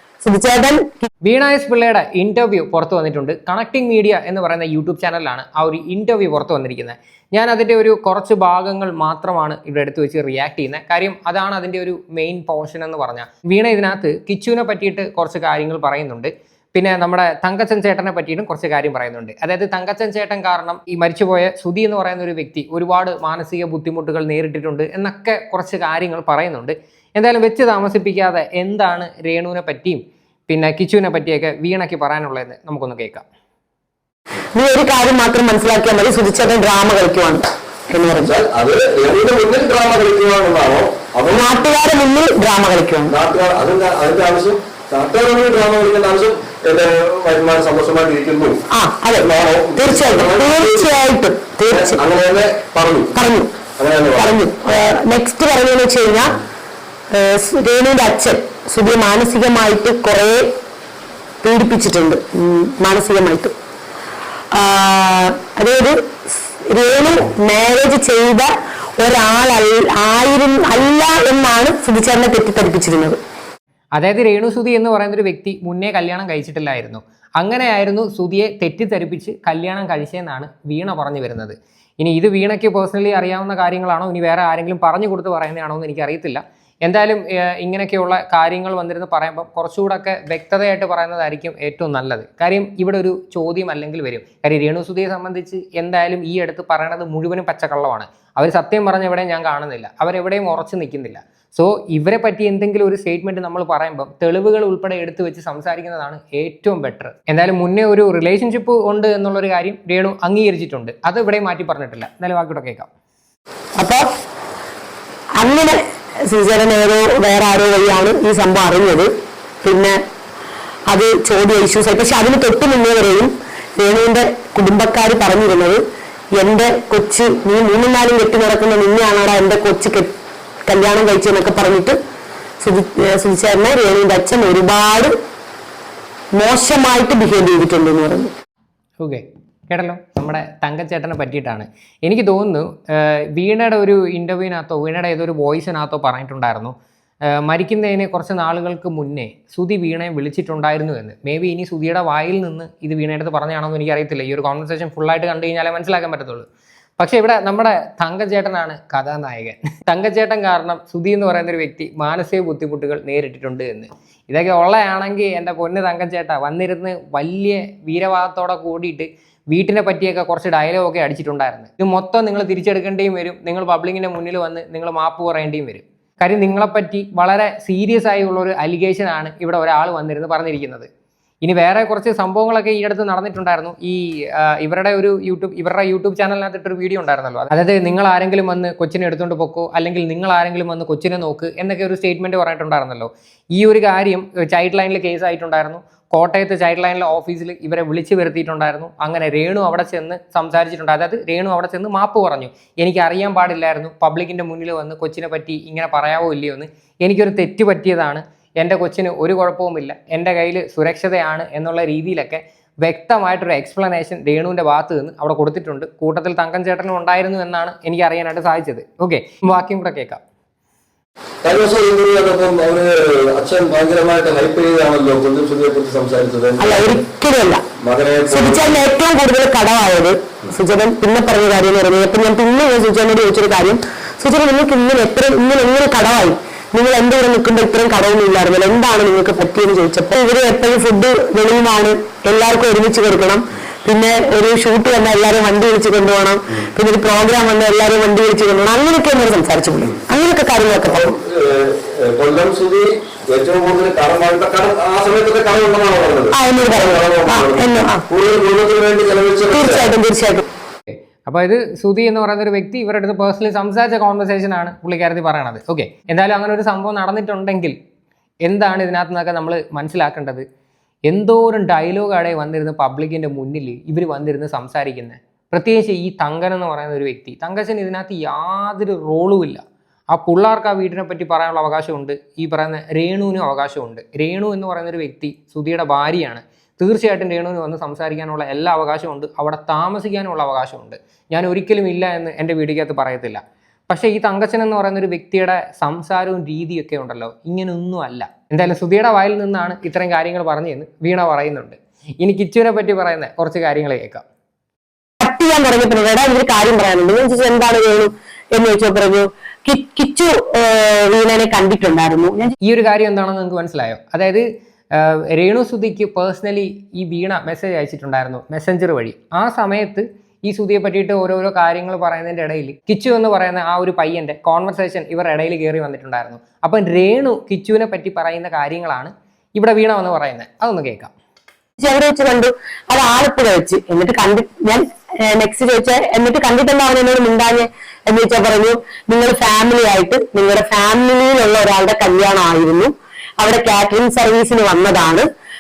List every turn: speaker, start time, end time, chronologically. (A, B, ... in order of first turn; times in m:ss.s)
0:00.2-0:01.1 A
0:01.2-0:33.2 B
0:34.6-0:38.4 A
0:38.2-0:41.8 C
0:41.3-0:43.2 A
0:43.1-0:48.6 C
0:48.7-0:52.0 A
0:49.2-0:51.0 C
0:51.7-0:53.1 C
0:53.1-0:53.6 A
0:53.8-0:54.4 C
0:54.2-0:56.4 A
0:57.1-1:00.5 A
1:01.4-1:03.6 A
1:04.5-1:13.2 A
1:13.9-1:52.9 B
1:53.8-1:54.1 A
1:55.4-1:59.1 A
1:59.6-2:00.0 A
2:00.9-2:05.8 A
2:06.4-2:10.1 A
2:10.7-2:12.0 A
2:12.6-2:15.2 A
2:16.4-2:18.3 A
2:19.0-2:26.8 B
2:27.3-2:36.5 B
2:37.0-3:00.9 B
3:01.4-3:40.2 B
3:41.4-3:47.0 C
3:46.6-3:47.7 A
3:47.8-3:48.8 C
3:48.3-4:11.1 A
4:10.8-4:19.9 C
4:16.3-4:18.0 A
4:19.5-4:20.4 A
4:20.9-4:27.8 B
4:28.4-4:30.4 B
4:31.1-5:04.2 B
5:05.2-5:12.5 A
5:12.6-5:31.1 B
5:31.8-5:45.3 A